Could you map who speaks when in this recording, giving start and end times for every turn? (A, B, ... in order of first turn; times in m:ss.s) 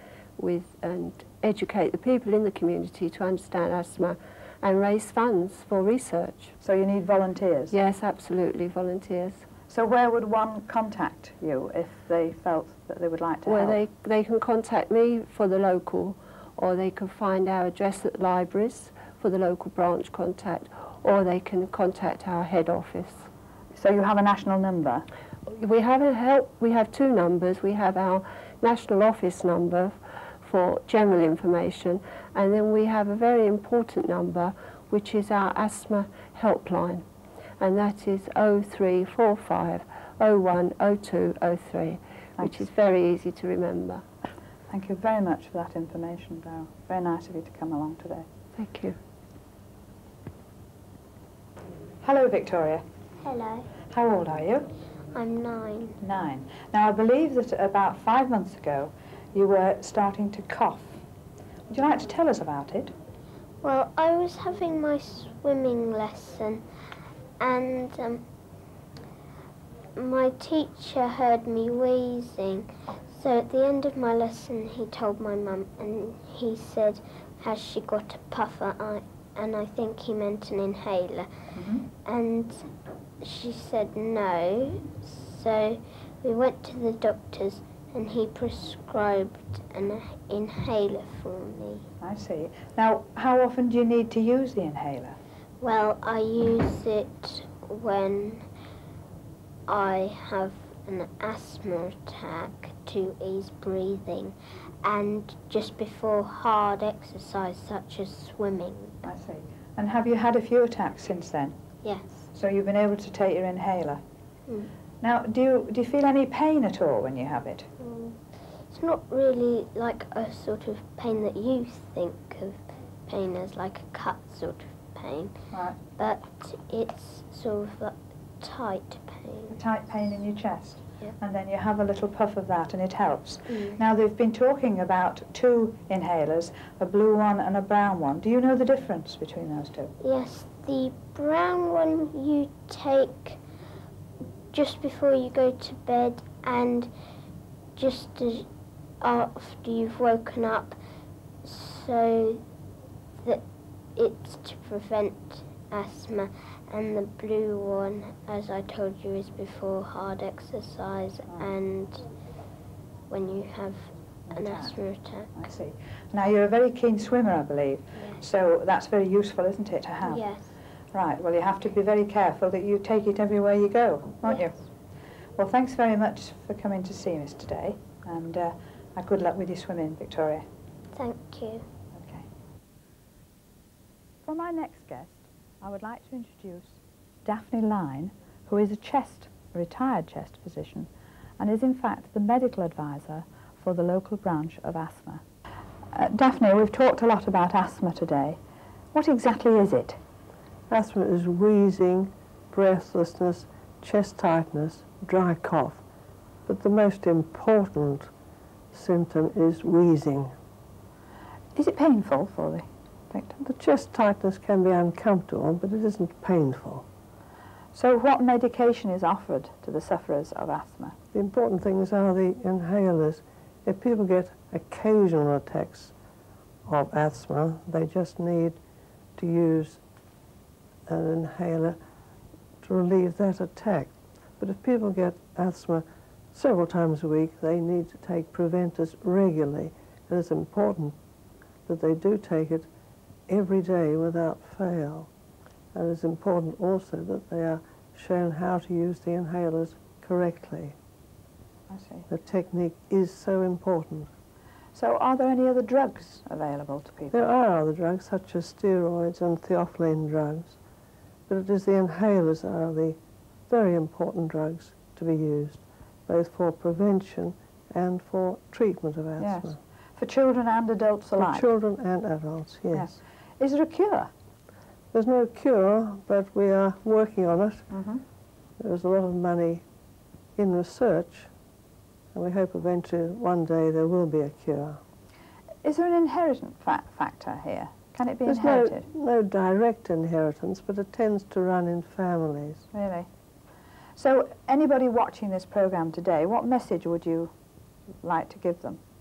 0:00.4-0:06.6 A
0:06.6-0:07.8 B
0:07.7-0:09.5 A
0:09.7-0:13.8 B
0:13.4-0:23.3 A
0:23.7-0:25.0 B
0:25.6-0:37.1 A
0:37.6-0:44.0 A
0:42.4-0:42.7 B
0:44.7-0:48.3 B
0:48.6-0:49.0 A
0:52.0-0:52.8 B
0:53.2-0:53.7 C
0:53.9-0:54.7 B
0:55.1-0:56.0 C
0:56.0-1:01.0 B
1:01.7-1:02.9 B
1:03.6-1:06.6 C
1:07.4-1:08.3 C
1:10.0-1:21.3 C
1:21.5-1:21.9 B
1:22.0-1:22.7 C
1:23.2-1:31.9 C
1:32.0-1:35.2 B
1:35.6-1:38.5 C
1:39.7-1:49.0 C
1:49.0-1:51.6 B
1:52.3-1:54.0 B
1:55.0-1:57.7 B
1:57.8-2:05.4 C
2:05.5-2:05.8 B
2:06.0-2:09.6 C
2:09.5-2:19.9 B
2:13.5-2:13.8 C
2:20.0-2:23.4 C
2:24.5-2:26.9 C
2:27.8-2:28.5 C
2:29.0-2:30.8 C
2:31.4-2:32.4 C
2:34.0-2:42.1 C
2:43.1-2:45.3 C
2:44.3-2:44.8 B
2:45.3-2:50.2 B
2:47.9-2:48.2 C
2:50.0-2:50.5 C
2:50.9-2:54.6 B
2:54.2-2:54.6 C
2:55.4-3:00.5 B
3:00.9-3:01.6 C
3:02.0-3:02.3 B
3:04.2-3:15.2 B
3:15.9-3:18.4 B
3:18.9-3:20.0 B
3:20.7-3:25.8 D
3:26.5-3:28.1 D
3:28.7-3:30.3 D
3:31.6-3:33.4 B
3:33.4-3:36.9 D
3:37.7-3:41.0 B
3:41.1-3:45.9 D
3:46.7-3:48.6 D
3:49.2-3:49.8 D
3:50.9-3:51.8 D
3:52.6-4:01.0 D
4:01.7-4:02.7 D
4:03.3-4:05.1 D
4:05.8-4:10.8 D
4:11.7-4:12.1 B
4:12.1-4:14.1 D
4:14.7-4:17.3 B
4:17.1-4:20.6 D
4:21.3-4:23.0 D
4:23.5-4:29.6 D
4:29.2-4:31.5 B
4:31.2-4:32.9 D
4:32.7-4:34.1 B
4:34.9-4:37.6 D
4:37.7-4:38.0 B
4:38.6-4:39.6 D
4:40.4-4:41.3 D
4:42.1-4:44.8 D
4:45.6-4:48.9 B
4:48.3-4:52.7 D
4:52.7-4:53.1 B
4:54.0-4:57.3 B
4:58.0-4:58.8 B